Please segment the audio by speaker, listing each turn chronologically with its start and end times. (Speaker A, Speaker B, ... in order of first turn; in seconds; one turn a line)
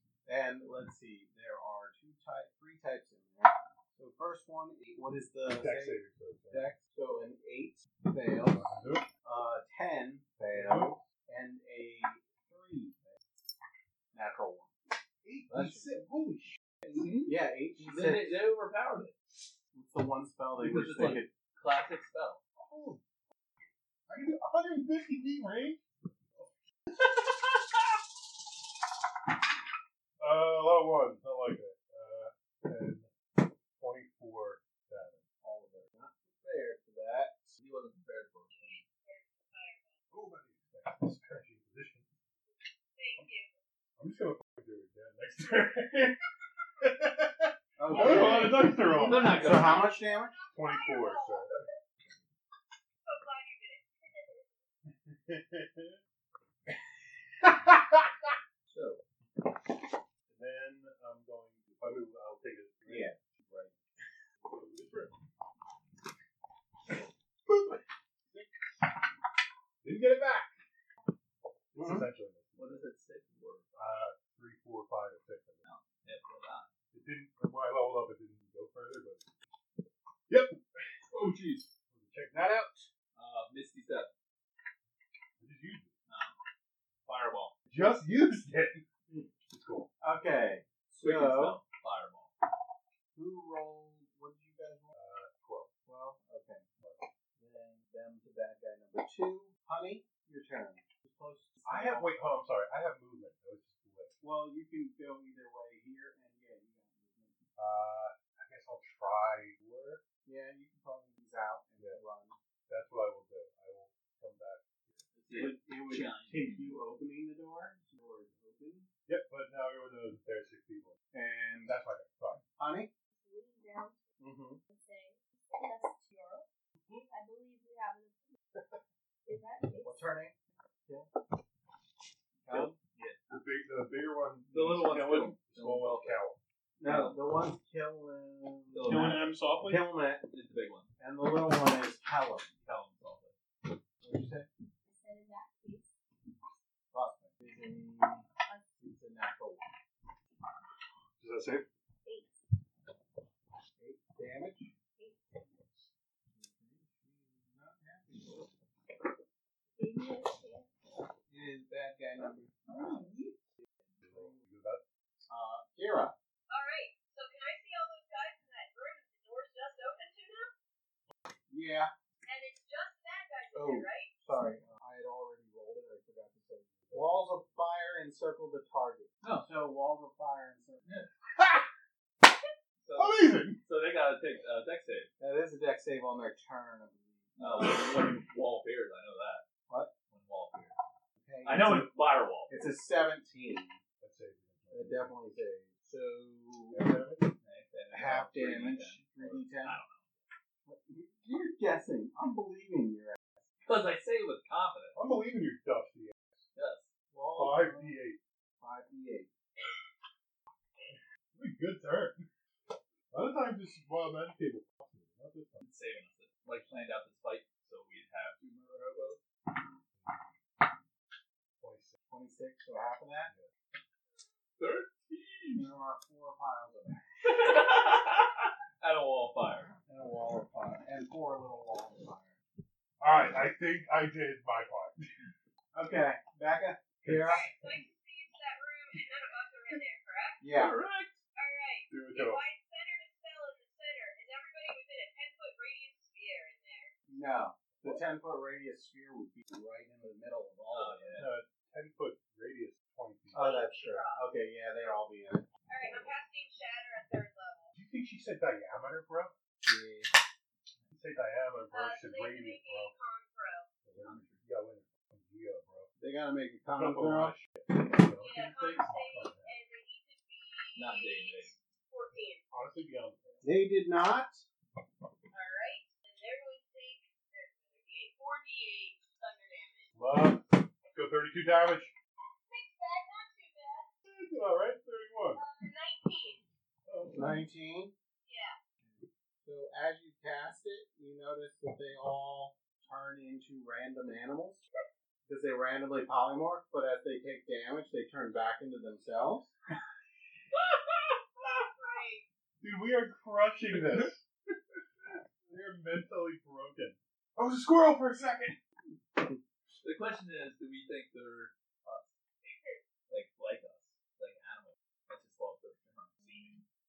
Speaker A: 0.2-6.0
Speaker B: 5.5-6.6
Speaker A: 6.5-13.1
Speaker B: 8.5-9.1
Speaker B: 10.5-11.0
Speaker A: 14.1-14.7
Speaker B: 15.2-16.6
Speaker A: 15.5-16.0
Speaker C: 16.8-19.2
Speaker A: 17.2-18.4
Speaker A: 19.7-21.3
Speaker C: 20.6-22.4
Speaker B: 22.6-23.0
Speaker B: 24.1-27.8
Speaker B: 30.2-35.2
Speaker A: 35.4-37.5
Speaker C: 37.6-38.8
Speaker D: 38.5-39.9
Speaker B: 40.1-42.1
Speaker D: 42.9-43.5
Speaker B: 44.0-46.2
Speaker B: 46.8-49.6
Speaker A: 47.8-50.3
Speaker C: 47.9-49.9
Speaker D: 49.1-51.8
Speaker B: 50.5-51.5
Speaker D: 53.0-54.5
Speaker B: 54.9-56.0
Speaker B: 57.7-58.3
Speaker A: 58.7-59.0
Speaker B: 60.3-63.1
Speaker A: 62.9-63.8
Speaker B: 64.4-65.2
Speaker B: 67.5-68.9
Speaker B: 69.8-70.5
Speaker B: 71.7-72.8
Speaker A: 71.8-72.0
Speaker C: 72.6-73.7
Speaker B: 73.7-75.6
Speaker C: 75.6-76.7
Speaker B: 76.9-79.3
Speaker B: 80.3-81.0
Speaker C: 81.1-81.7
Speaker B: 81.9-82.9
Speaker C: 83.1-84.1
Speaker B: 85.4-85.9
Speaker C: 86.1-86.3
Speaker C: 87.0-87.5
Speaker B: 87.7-88.8
Speaker B: 89.5-89.9
Speaker A: 90.0-91.6
Speaker C: 91.0-92.3
Speaker A: 93.1-94.9
Speaker B: 94.9-95.7
Speaker A: 95.8-96.7
Speaker B: 96.8-97.1
Speaker A: 97.4-102.1
Speaker B: 101.7-104.2
Speaker A: 104.2-107.4
Speaker B: 107.6-110.0
Speaker A: 110.0-112.3
Speaker B: 112.7-115.0
Speaker C: 115.1-116.8
Speaker A: 115.3-118.9
Speaker B: 119.1-120.9
Speaker A: 121.1-121.8
Speaker B: 121.7-122.4
Speaker A: 122.6-122.9
Speaker E: 123.1-124.0
Speaker A: 124.2-124.6
Speaker E: 124.7-126.5
Speaker E: 127.1-128.3
Speaker E: 129.2-130.1
Speaker A: 129.8-130.3
Speaker A: 132.4-132.8
Speaker C: 132.5-133.3
Speaker B: 133.3-136.4
Speaker C: 134.5-136.2
Speaker A: 136.8-139.1
Speaker C: 136.8-137.2
Speaker C: 138.7-139.4
Speaker B: 138.8-139.8
Speaker A: 139.6-140.2
Speaker C: 140.3-140.9
Speaker A: 141.0-142.5
Speaker C: 142.6-143.3
Speaker A: 144.0-144.5
Speaker E: 144.8-145.9
Speaker A: 146.9-148.2
Speaker A: 148.8-149.7
Speaker B: 151.2-151.7
Speaker E: 152.0-152.3
Speaker A: 153.8-154.7
Speaker E: 154.9-155.7
Speaker A: 156.3-158.5
Speaker E: 159.8-160.7
Speaker A: 161.3-163.0
Speaker C: 162.7-163.4
Speaker A: 164.0-164.4
Speaker B: 164.1-164.8
Speaker A: 165.3-166.1
Speaker D: 166.5-170.5
Speaker A: 171.5-171.9
Speaker D: 172.2-174.2
Speaker A: 173.5-180.8
Speaker B: 176.9-177.2
Speaker C: 179.2-179.5
Speaker B: 181.3-181.7
Speaker C: 182.8-185.1
Speaker B: 182.9-183.6
Speaker A: 185.2-188.1
Speaker C: 187.4-189.4
Speaker A: 189.7-189.9
Speaker C: 190.1-190.8
Speaker A: 191.2-191.9
Speaker C: 191.4-192.5
Speaker A: 192.5-193.8
Speaker B: 194.0-195.2
Speaker A: 194.7-196.9
Speaker B: 196.7-197.3
Speaker C: 197.4-200.3
Speaker A: 197.9-199.8
Speaker A: 200.7-203.4
Speaker C: 203.7-204.9
Speaker B: 204.9-206.5
Speaker C: 206.5-206.9
Speaker A: 207.1-207.9
Speaker B: 207.3-208.2
Speaker A: 208.6-209.3
Speaker B: 210.8-212.3
Speaker B: 213.1-215.6
Speaker C: 215.6-219.2
Speaker B: 221.6-221.9
Speaker A: 222.1-223.3
Speaker C: 224.6-225.7
Speaker A: 225.5-227.1
Speaker C: 227.2-229.7
Speaker A: 229.9-232.4
Speaker B: 233.0-235.3
Speaker A: 235.7-237.5
Speaker B: 237.0-237.8
Speaker D: 237.2-240.4
Speaker A: 240.4-240.8
Speaker C: 240.5-241.2
Speaker D: 241.3-246.9
Speaker B: 241.9-242.4
Speaker A: 247.1-251.2
Speaker B: 247.8-248.0
Speaker C: 250.7-251.3
Speaker B: 251.2-253.5
Speaker A: 253.3-255.5
Speaker D: 253.3-254.2
Speaker D: 255.7-257.7
Speaker B: 257.7-259.3
Speaker A: 259.6-260.1
Speaker B: 260.9-262.9
Speaker D: 261.7-263.7
Speaker B: 263.8-265.9
Speaker C: 264.0-264.4
Speaker A: 266.0-267.4
Speaker B: 266.7-269.5
Speaker D: 268.2-272.4
Speaker C: 270.8-271.5
Speaker B: 272.5-273.4
Speaker A: 273.4-274.4
Speaker D: 275.3-279.9
Speaker B: 279.9-281.9
Speaker D: 282.5-283.9
Speaker B: 284.0-285.4
Speaker D: 285.3-286.5
Speaker B: 286.9-287.4
Speaker A: 287.1-287.9
Speaker D: 288.2-288.6
Speaker A: 288.8-294.6
Speaker A: 295.3-299.5
Speaker D: 301.4-302.2
Speaker B: 302.6-304.2
Speaker B: 305.0-308.6
Speaker C: 309.8-312.1
Speaker D: 312.4-312.8
Speaker C: 313.1-316.6